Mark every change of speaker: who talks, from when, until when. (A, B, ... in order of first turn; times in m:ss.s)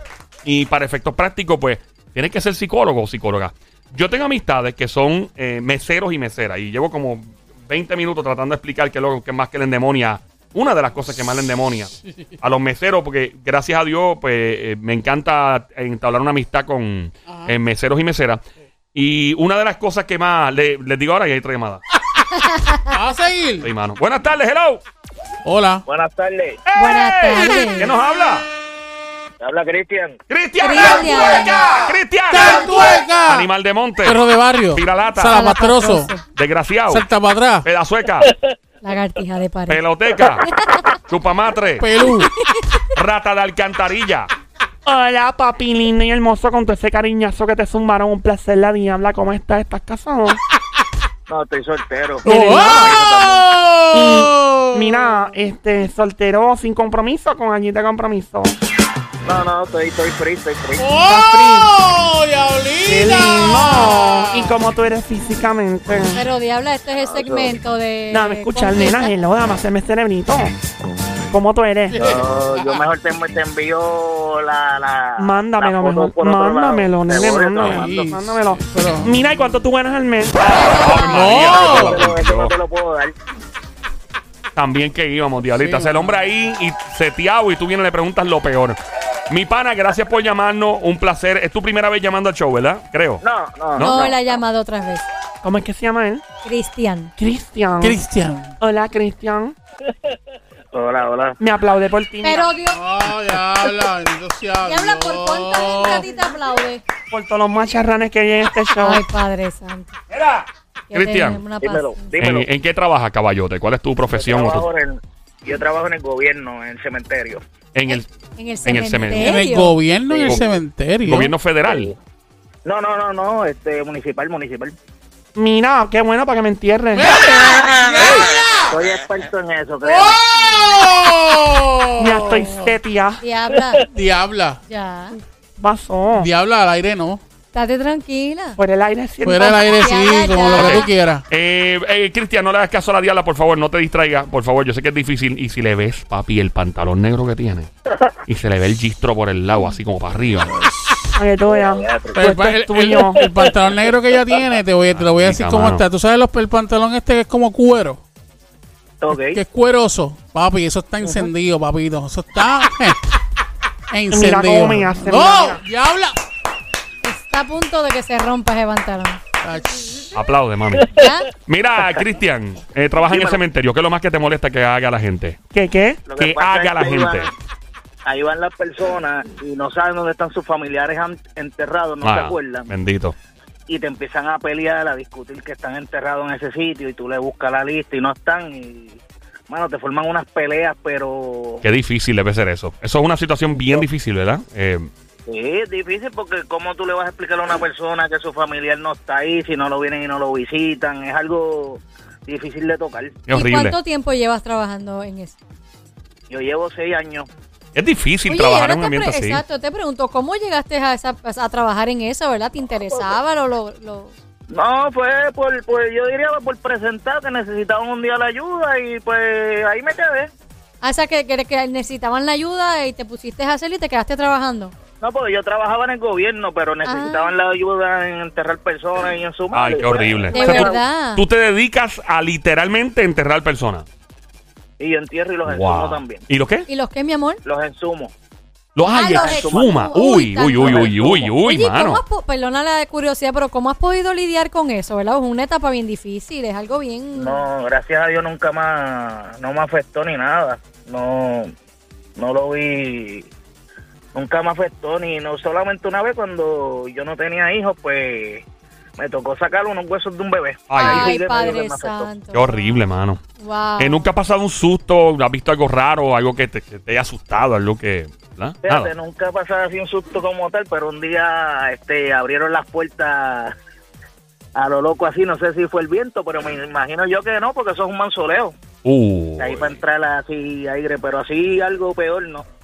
0:00.4-0:18.4 A
0:12.0-0:12.3 B
0:17.3-0:17.6 B
0:18.9-0:21.8 A
0:22.3-0:22.9 C
0:22.9-0:23.7 B
0:23.6-0:24.8 A
0:25.4-0:25.8 B
0:25.8-0:26.6 D
0:26.7-0:28.5 A
0:26.8-0:27.9 C
0:29.4-0:30.2 D
0:30.3-0:35.4 A
0:30.6-0:31.6 C
0:32.3-0:33.5 B
0:34.0-0:36.1 B
0:35.3-0:36.2 C
0:36.3-0:37.1 A
0:36.9-0:37.6 B
0:37.6-0:38.3 A
0:38.8-0:39.8 C
0:39.7-0:40.5 A
0:40.4-0:40.8 C
0:41.1-0:41.9 A
0:41.8-0:42.3 B
0:42.2-0:42.7 C
0:42.9-0:44.3 A
0:44.8-0:50.4 E
0:51.3-0:53.5 D
0:52.2-0:52.9 E
0:52.2-0:55.2 B
0:53.9-0:58.6 E
0:59.2-1:01.0 D
1:00.8-1:04.6 B
1:01.0-1:01.7 E
1:02.8-1:06.2 E
1:06.1-1:09.1 C
1:07.0-1:07.6 D
1:08.1-1:10.5 E
1:11.3-1:12.0 E
1:11.9-1:12.8 B
1:12.0-1:18.2 D
1:15.2-1:20.7 E
1:17.2-1:19.2 B
1:20.4-1:22.5 A
1:20.8-1:22.0 B
1:21.1-1:23.1 D
1:24.5-1:28.8 A
1:25.5-1:26.2 B
1:29.3-1:33.2 A
1:33.2-1:34.4 D
1:33.8-1:35.0 C
1:35.4-1:36.2 E
1:36.4-1:37.1 C
1:37.2-1:38.0 E
1:37.8-1:38.5 B
1:38.6-1:39.5 E
1:40.7-1:41.4 D
1:41.4-1:42.5 E
1:42.2-1:42.8 C
1:42.7-1:46.1 B
1:44.6-1:46.8 C
1:47.1-1:49.0 E
1:48.8-1:49.9 C
1:50.1-1:51.4 A
1:50.9-1:52.2 C
1:51.6-1:52.5 D
1:52.2-1:54.7 A
1:54.1-1:57.4 D
1:57.7-1:58.0 A
1:57.9-1:59.8 C
1:58.6-1:59.3 A
1:59.1-2:01.3 B
2:00.1-2:00.5 D
2:00.2-2:00.4 A
2:01.0-2:01.9 A
2:01.6-2:02.0 D
2:02.6-2:04.8 D
2:05.4-2:07.1 E
2:06.9-2:08.7 B
2:08.7-2:10.2 D
2:09.8-2:12.8 B
2:12.0-2:13.2 E
2:13.2-2:13.9 C
2:13.8-2:14.6 B
2:14.7-2:15.2 C
2:15.6-2:16.3 E
2:16.2-2:17.2 B
2:17.5-2:18.6 C
2:18.6-2:19.7 E
2:19.2-2:21.2 B
2:19.4-2:20.9 C
2:20.5-2:27.7 A
2:28.2-2:30.5 A
2:30.6-2:31.0 B
2:31.1-2:33.2 E
2:31.4-2:32.3 D
2:32.1-2:38.0 B
2:33.2-2:33.5 D
2:34.9-2:35.8 A
2:39.0-2:39.4 D
2:39.1-2:43.0 B
2:43.9-2:46.2 B
2:44.1-2:45.6 E
2:47.0-2:49.2 C
2:49.4-2:50.0 B
2:50.1-2:55.4 A
2:50.9-2:51.3 C
2:53.1-2:53.4 D
2:55.5-2:56.0 E
2:56.1-2:57.3 D
2:56.2-2:57.3 A
2:58.0-3:02.7 D
3:02.0-3:03.1 A
3:03.7-3:11.6 D
3:11.6-3:14.9 A
3:15.3-3:23.2 D
3:23.3-3:23.8 A
3:23.3-3:25.4 C
3:26.3-3:27.3 D
3:27.7-3:29.4 A
3:28.3-3:34.1 C
3:32.8-3:33.2 D
3:34.5-3:40.3 D
3:40.8-3:44.7 C
3:45.0-3:50.8 D
3:46.8-3:47.3 C
3:49.5-3:53.8 A
3:50.3-3:51.2 C
3:54.8-3:56.2 D
3:55.4-3:56.7 A
3:56.7-3:57.4 C
3:57.4-3:58.1 D
3:58.8-4:02.0 A
3:58.9-4:07.4 C
3:58.9-3:59.8 D
4:00.6-4:01.3 D
4:07.2-4:11.5 D
4:12.2-4:13.3 D
4:14.1-4:18.4 D
4:19.0-4:22.1 D
4:20.7-4:21.2 A
4:20.8-4:22.7 C
4:22.3-4:23.2 A
4:23.4-4:24.1 C
4:23.8-4:28.9 A
4:28.6-4:33.6 D
4:34.5-4:38.6 D
4:38.8-4:39.8 A
4:39.4-4:42.5 D